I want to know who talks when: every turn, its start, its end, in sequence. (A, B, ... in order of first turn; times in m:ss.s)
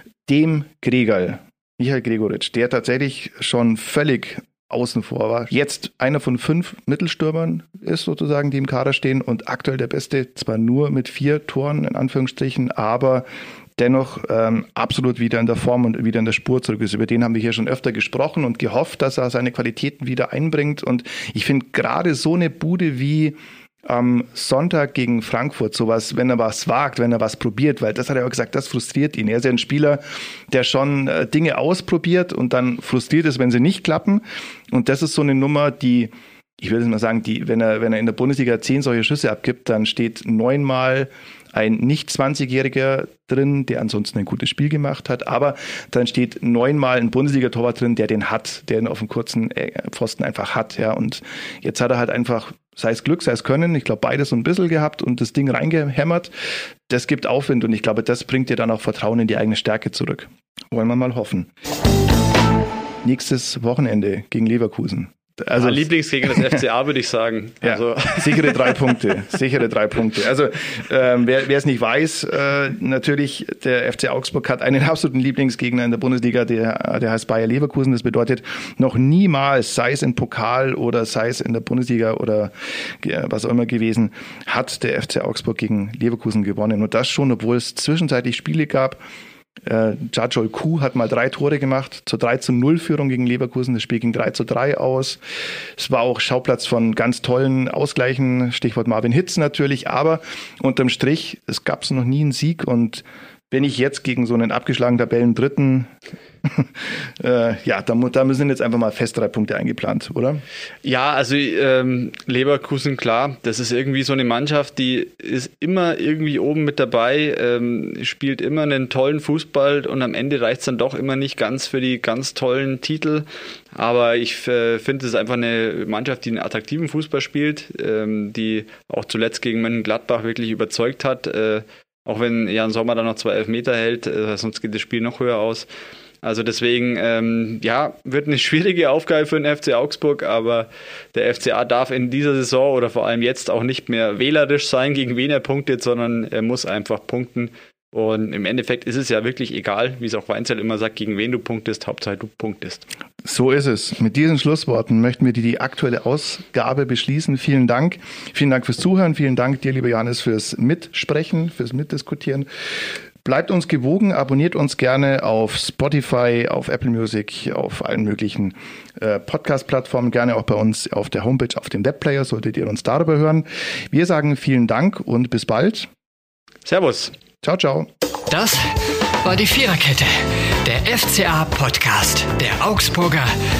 0:00.2-0:56.3 A
0:56.9-1:01.5 A
1:03.0-1:06.6 A
1:05.5-1:09.2 B
1:07.6-1:29.0 A
1:29.6-1:35.2 A
1:35.8-1:45.9 A
1:46.4-1:50.4 A
1:50.8-2:15.7 B
2:16.2-2:32.8 B
2:33.2-2:42.5 A
2:43.2-2:55.9 A
2:56.6-2:57.1 B
2:57.4-2:57.9 A
2:58.3-2:58.6 C
2:59.2-3:03.3 C